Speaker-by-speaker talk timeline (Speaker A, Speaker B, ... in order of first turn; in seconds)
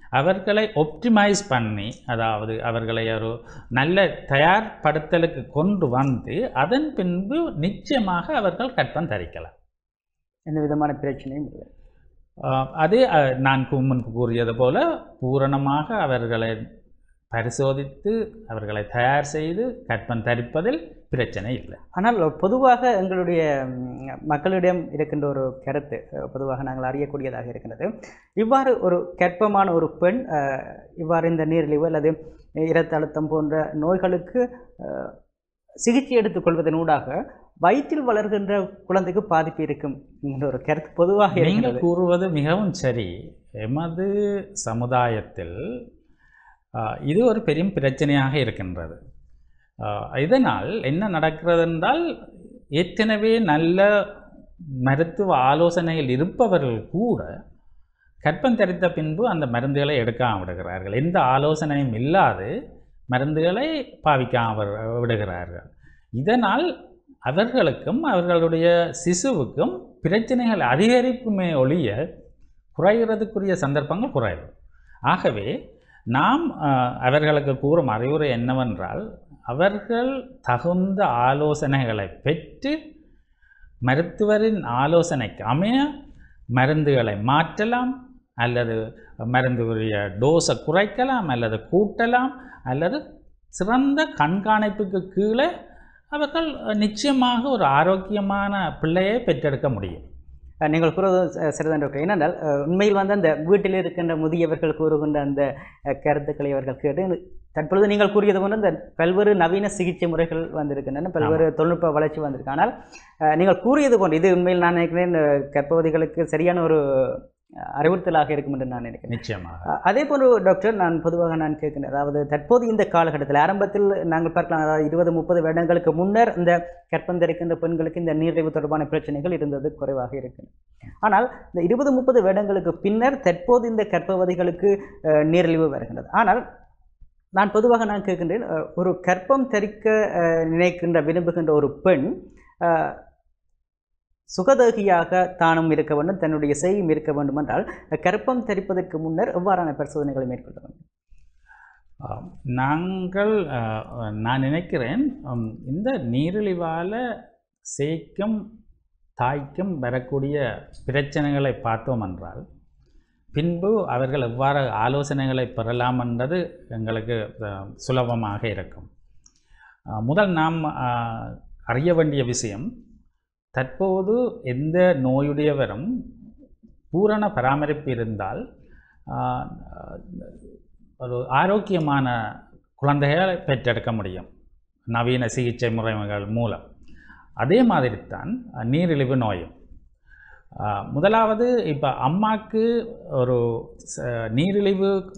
Speaker A: 0.2-9.5, 12.4-16.6, 17.3-21.8, 41.3-45.6, 46.8-49.0, 49.8-52.0, 52.8-53.9, 54.8-57.3, 58.2-62.5, 63.1-65.6, 66.2-66.7, 67.3-72.0, 72.8-74.5, 75.1-75.5, 76.1-82.8, 83.9-85.9, 86.6-93.0, 93.6-95.5, 96.1-100.0, 119.1-119.7, 152.0-157.0, 157.7-158.4, 159.2-162.4, 163.3-168.9, 170.0-172.7, 173.6-175.9, 176.9-178.4, 179.1-180.3, 181.0-182.2, 182.8-184.3, 184.9-186.6, 187.4-189.5, 190.6-195.0
Speaker B: 10.5-11.7, 21.9-35.1, 35.8-41.8, 100.7-112.7, 113.3-117.2, 117.8-119.2, 119.7-130.5, 131.0-136.4, 137.4-143.0, 144.3-150.8